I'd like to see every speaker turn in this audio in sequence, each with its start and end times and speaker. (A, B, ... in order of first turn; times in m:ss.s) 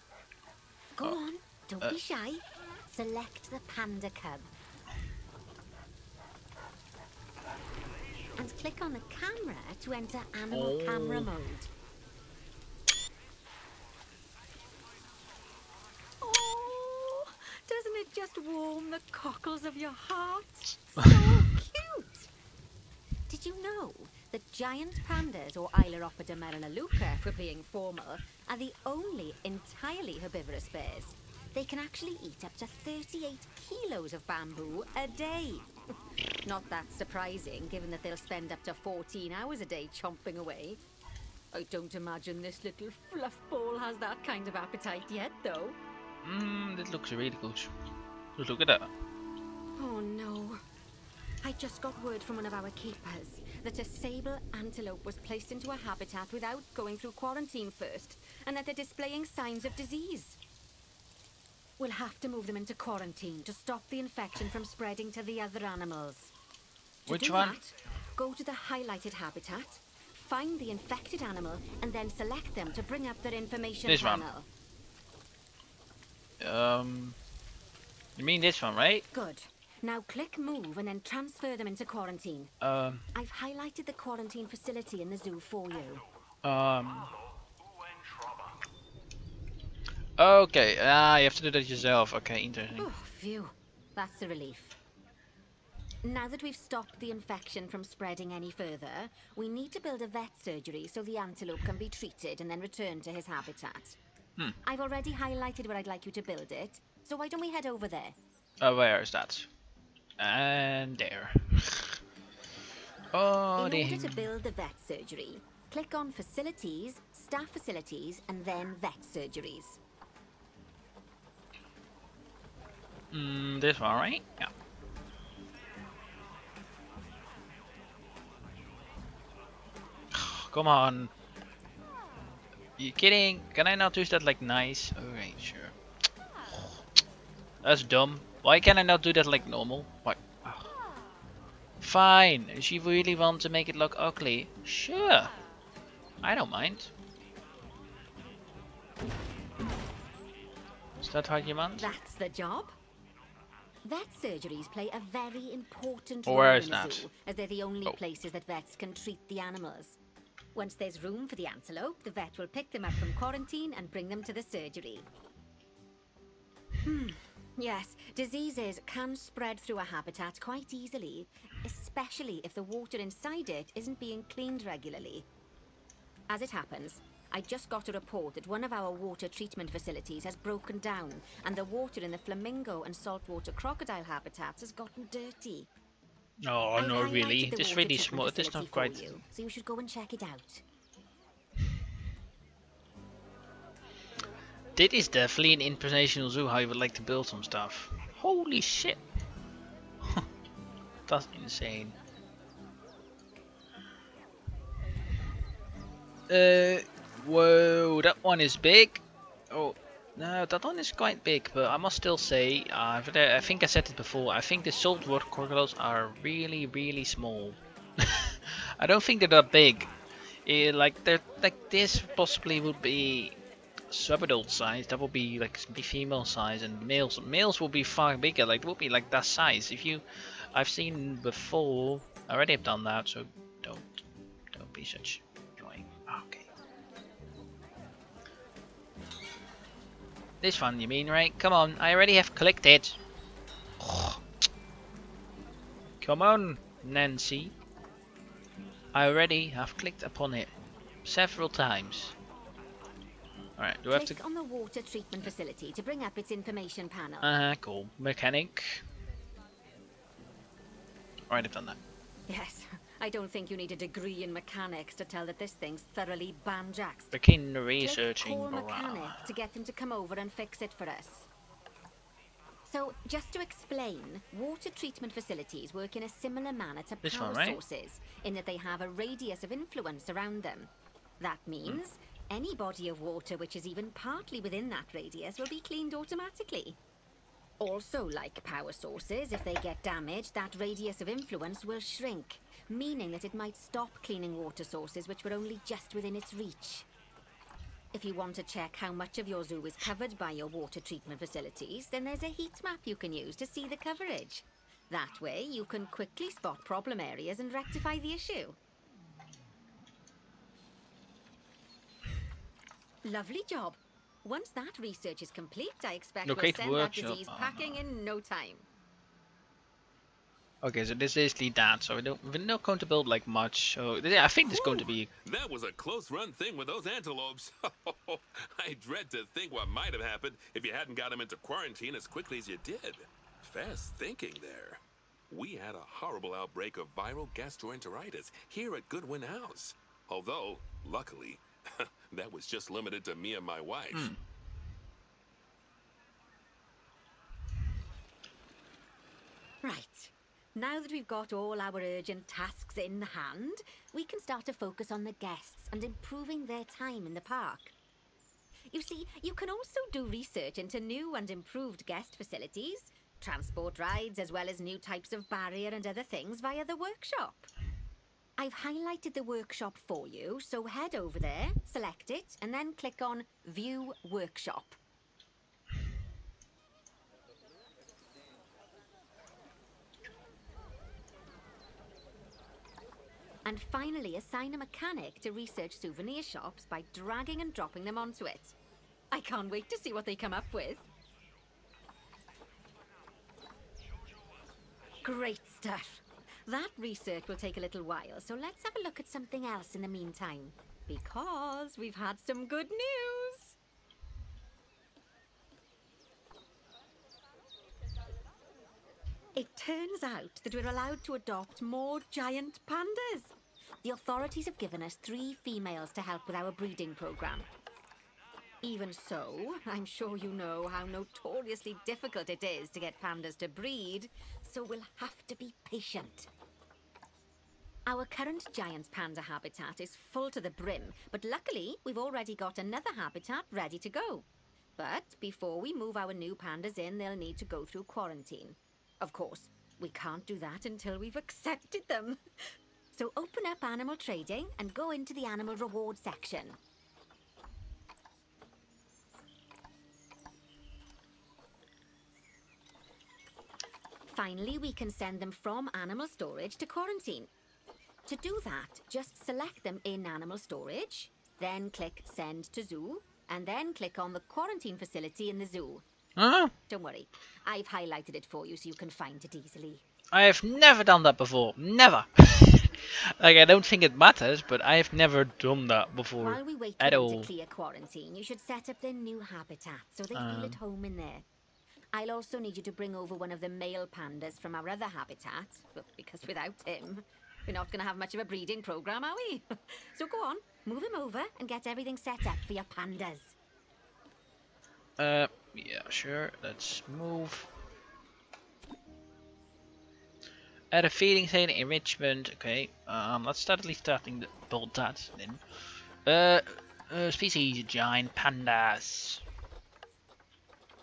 0:01.0-0:04.5 A
0:08.4-0:11.7 A
0:10.5-0:11.3 B
0:16.2-0:22.3 A
0:23.3-0:35.7 A
0:36.4-0:40.8 A
0:41.5-0:45.8 A
0:46.2-0:47.7 B
0:48.4-0:48.9 B
0:49.8-0:50.6 A
0:51.4-1:00.4 A
1:01.8-1:06.3 A
1:07.1-1:07.6 B
1:07.1-1:14.5 A
1:13.8-1:14.3 B
1:16.4-1:17.2 B
1:18.2-1:19.0 B
1:19.1-1:22.5 A
1:22.6-1:23.1 B
1:23.1-1:26.0 A
1:26.4-1:27.1 B
1:30.2-1:32.9 B
1:32.8-1:34.8 A
1:36.0-1:44.0 A
1:44.6-1:48.2 A
1:48.6-1:49.5 B
1:50.2-1:52.0 B
1:53.1-1:54.3 B
1:53.6-1:59.8 A
2:03.1-2:04.5 B
2:10.1-2:11.1 B
2:12.8-2:15.7 B
2:17.6-2:20.7 B
2:21.8-2:25.3 B
2:26.2-2:26.9 B
2:31.0-2:31.9 B
2:31.8-2:32.8 A
2:33.8-2:40.0 A
2:36.2-2:37.1 B
2:40.5-2:45.1 A
2:46.8-2:55.2 A
2:56.3-3:05.7 A
3:06.4-3:09.1 B
3:06.8-3:10.6 A
3:14.7-3:19.0 B
3:21.1-3:21.9 B
3:26.3-3:39.9 B
3:40.4-3:43.4 B
3:43.9-3:54.0 B
3:54.5-3:56.5 B
4:00.4-4:03.0 B
4:03.8-4:04.2 B
4:06.0-4:07.5 B
4:08.9-4:10.5 B
4:11.0-4:12.1 B
4:13.6-4:14.2 B
4:13.9-4:17.3 A
4:17.2-4:18.8 B
4:21.3-4:21.8 B
4:22.3-4:27.2 A
4:27.1-4:29.3 B
4:27.8-4:31.3 A
4:32.6-4:46.8 A
4:37.0-4:37.6 B
4:47.6-4:56.9 A
4:57.9-5:08.6 A
5:13.0-5:18.6 A
5:16.2-5:17.8 B
5:20.6-5:25.1 B
5:24.5-5:24.8 A
5:25.2-5:44.1 C
5:43.9-5:44.2 B
5:49.6-5:57.7 A
5:58.7-6:07.5 A
6:08.4-6:14.8 A
6:23.4-6:28.6 A
6:29.1-6:30.8 A
6:35.0-6:43.6 A
6:49.3-6:57.5 A
6:58.6-7:06.3 A
7:07.9-7:14.2 A
7:14.8-7:22.2 A
7:22.9-7:26.6 A
7:34.1-7:37.3 A
7:38.0-7:45.8 A
7:46.2-7:46.5 B
7:46.7-7:49.8 A
7:50.1-7:57.3 B
7:56.2-8:01.2 A
8:00.1-8:00.6 B
8:01.9-8:13.4 A
8:15.0-8:17.5 B
8:20.7-8:25.4 B
8:26.0-8:29.2 B